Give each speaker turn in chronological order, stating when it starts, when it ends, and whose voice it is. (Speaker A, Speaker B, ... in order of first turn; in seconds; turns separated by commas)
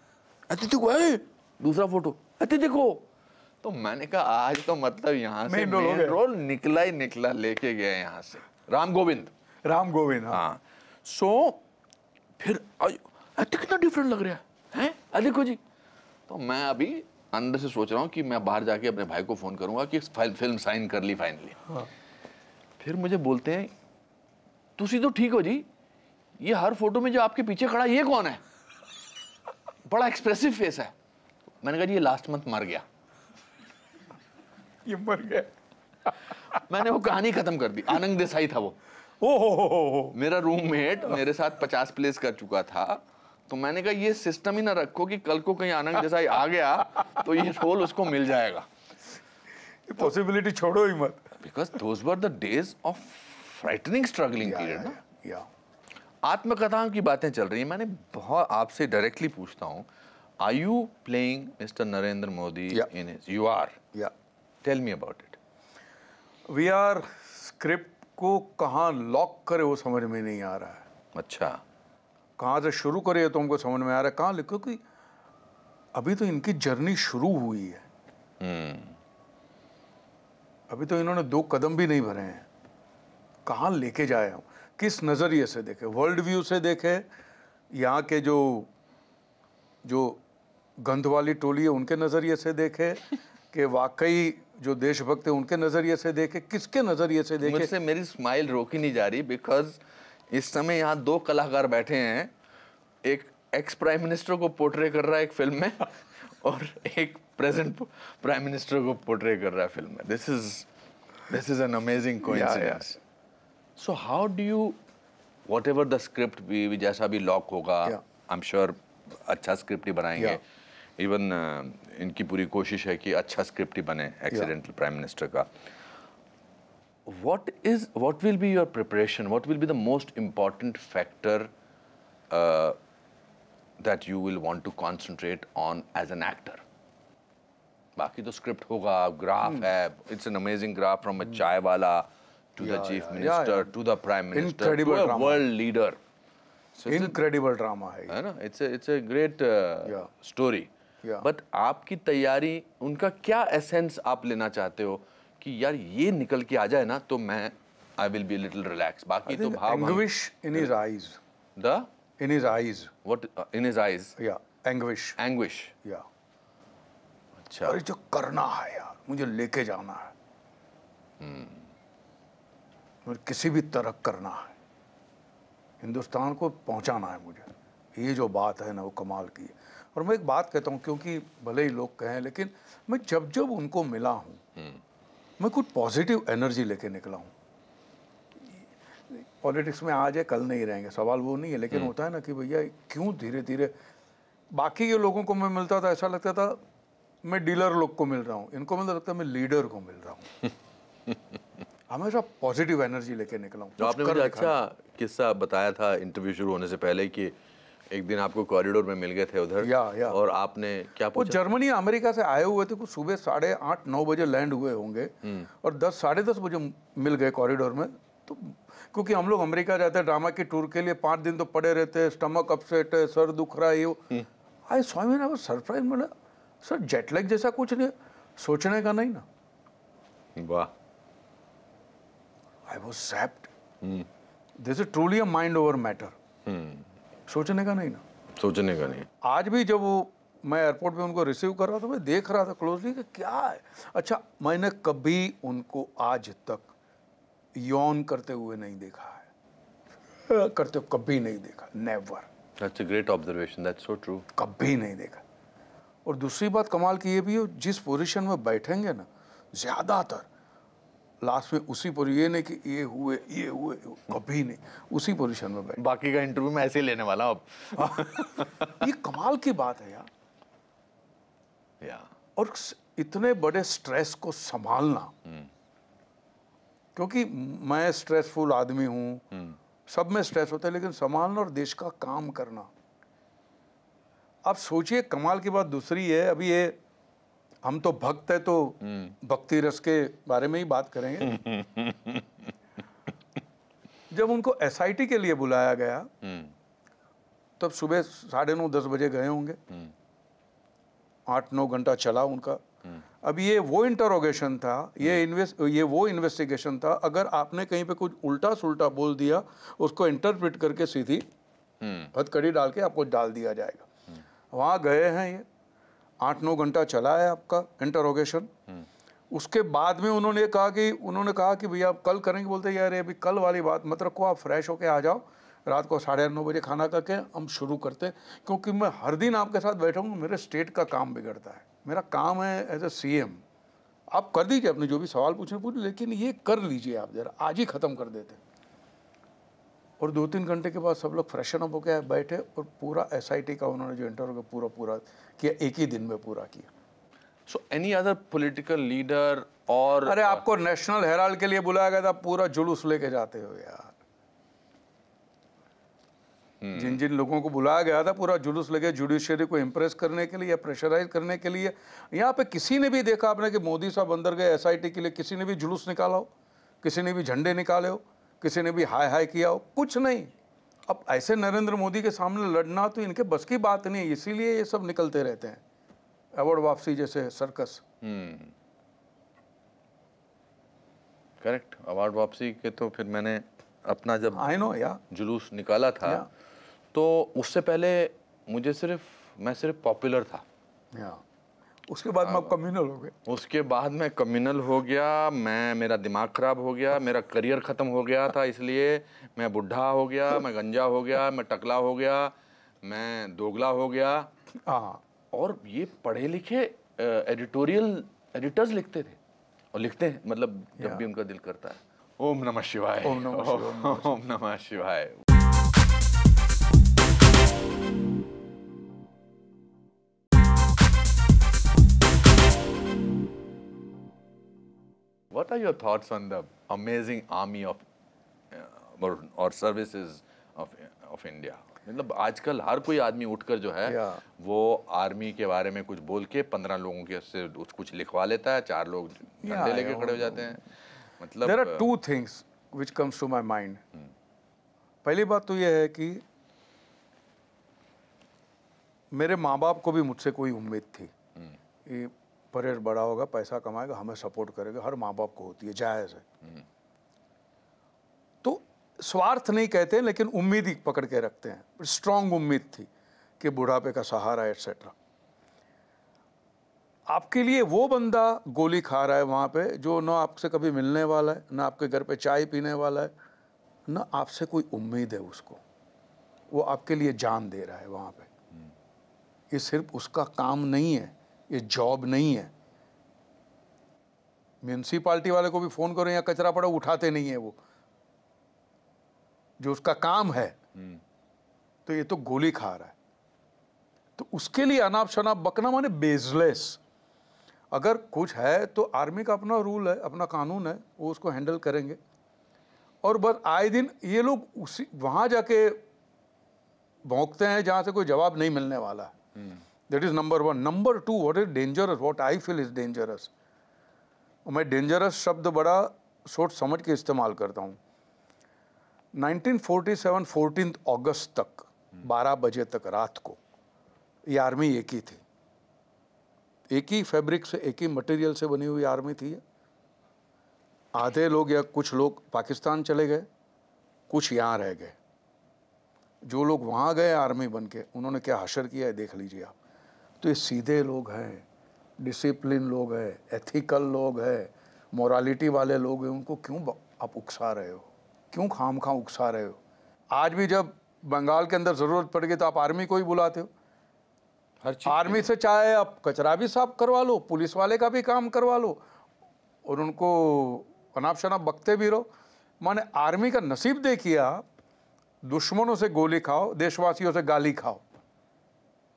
Speaker A: 0.5-3.0, Speaker A: 3.6-9.3, Speaker B: 5.5-6.2, Speaker B: 9.6-10.4, Speaker A: 10.3-11.6, Speaker A: 12.4-15.6, Speaker A: 16.3-21.6, Speaker A: 22.8-23.7, Speaker A: 24.8-25.7, Speaker A: 26.4-28.4, Speaker A: 29.9-30.9, Speaker A: 31.6-32.8, Speaker B: 34.9-35.5, Speaker A: 36.5-38.8, Speaker B: 39.2-40.1, Speaker A: 40.1-48.7, Speaker B: 49.9-51.3, Speaker A: 51.4-55.0, Speaker B: 54.4-55.5, Speaker A: 56.2-59.9, Speaker A: 60.4-63.8, Speaker A: 64.6-65.4, Speaker B: 66.5-70.8, Speaker A: 71.1-71.6, Speaker B: 72.4-74.8, Speaker B: 75.9-77.8, Speaker A: 78.4-79.0, Speaker B: 80.7-82.5, Speaker B: 83.5-87.0, Speaker B: 87.7-88.7, Speaker B: 89.8-90.2, Speaker B: 90.8-97.7, Speaker A: 97.4-99.8, Speaker A: 100.3-102.3, Speaker A: 103.0-110.7, Speaker A: 111.3-113.0, Speaker B: 112.2-112.9, Speaker A: 113.8-114.8, Speaker A: 115.5-120.4, Speaker A: 121.0-125.5, Speaker A: 127.0-131.5, Speaker A: 132.3-132.8, Speaker A: 133.8-136.6, Speaker A: 137.9-146.0, Speaker B: 142.6-143.7, Speaker B: 144.3-145.4, Speaker A: 146.8-147.2, Speaker B: 146.9-148.2, Speaker A: 148.1-150.7, Speaker A: 151.2-160.7, Speaker B: 159.2-161.2, Speaker A: 161.6-161.9, Speaker B: 162.2-162.9, Speaker A: 163.0-164.1, Speaker B: 164.2-165.2, Speaker A: 165.2-165.7, Speaker A: 167.4-167.8, Speaker B: 167.6-170.1, Speaker A: 171.2-171.7, Speaker B: 173.1-174.5, Speaker B: 175.8-184.4, Speaker B: 185.4-187.3, Speaker B: 189.1-193.7, Speaker B: 194.5-196.6, Speaker B: 197.2-200.3, Speaker B: 201.9-204.5, Speaker A: 203.8-207.3, Speaker A: 207.9-211.4, Speaker B: 209.6-210.2, Speaker B: 211.1-224.0, Speaker B: 224.7-226.1, Speaker B: 226.6-229.2, Speaker A: 230.3-230.7, Speaker B: 232.7-233.5, Speaker A: 233.8-234.1, Speaker B: 234.6-236.1, Speaker A: 236.4-236.9, Speaker B: 237.3-238.0, Speaker A: 238.3-239.1, Speaker B: 239.2-246.7, Speaker B: 247.6-249.3, Speaker B: 250.3-252.3, Speaker A: 252.6-254.3, Speaker B: 254.3-255.2, Speaker B: 256.1-260.2, Speaker B: 261.2-265.8, Speaker A: 265.8-268.8, Speaker B: 267.8-270.1, Speaker A: 271.8-272.1, Speaker B: 272.4-275.1, Speaker A: 275.2-275.5, Speaker B: 276.9-279.2, Speaker A: 279.3-279.6, Speaker B: 279.9-282.7, Speaker B: 284.4-286.8, Speaker B: 287.6-291.4, Speaker A: 288.8-289.1, Speaker A: 291.2-292.5, Speaker B: 294.1-296.1, Speaker A: 296.2-296.5, Speaker B: 297.6-299.6, Speaker B: 301.3-302.6, Speaker B: 303.2-311.2, Speaker A: 311.8-312.1, Speaker B: 312.1-313.9, Speaker B: 314.5-315.4, Speaker B: 316.2-318.5, Speaker B: 319.3-333.4, Speaker B: 334.1-338.4, Speaker B: 340.0-346.7, Speaker A: 347.5-350.4, Speaker B: 350.0-353.9, Speaker A: 356.6-357.0, Speaker B: 356.7-366.3, Speaker B: 366.8-370.3, Speaker B: 370.9-375.6, Speaker B: 376.4-377.8, Speaker A: 378.0-378.5, Speaker A: 381.4-384.5, Speaker B: 384.3-385.0, Speaker A: 385.1-386.2, Speaker A: 386.9-390.4, Speaker B: 390.9-391.2, Speaker B: 391.9-393.2, Speaker A: 392.2-392.5, Speaker A: 393.2-404.3, Speaker B: 404.6-405.0, Speaker A: 405.3-409.2, Speaker A: 409.7-415.2, Speaker B: 413.0-414.1, Speaker A: 425.3-427.8, Speaker A: 428.5-440.6, Speaker B: 433.9-434.2, Speaker B: 439.4-440.6, Speaker A: 441.2-441.9, Speaker B: 441.4-443.8, Speaker B: 445.0-446.2, Speaker B: 449.1-451.1, Speaker B: 451.9-456.2, Speaker B: 458.4-462.9, Speaker B: 463.4-464.9, Speaker B: 467.1-473.1, Speaker B: 473.9-475.6, Speaker B: 476.5-478.3, Speaker B: 479.5-482.5, Speaker B: 484.6-487.6, Speaker B: 489.6-490.6, Speaker B: 491.9-492.9, Speaker B: 494.2-496.8, Speaker B: 497.7-502.0, Speaker B: 503.0-505.8, Speaker B: 507.1-509.1, Speaker B: 509.9-513.3, Speaker B: 514.5-517.8, Speaker B: 519.1-523.4, Speaker B: 524.3-525.2, Speaker B: 526.7-529.4, Speaker B: 530.9-533.2, Speaker B: 534.1-535.0, Speaker B: 536.2-539.5, Speaker B: 540.2-541.4, Speaker B: 542.0-549.6, Speaker B: 550.1-553.5, Speaker A: 554.6-555.3, Speaker B: 554.8-558.8, Speaker B: 559.6-562.1, Speaker B: 562.6-564.5, Speaker B: 565.2-568.0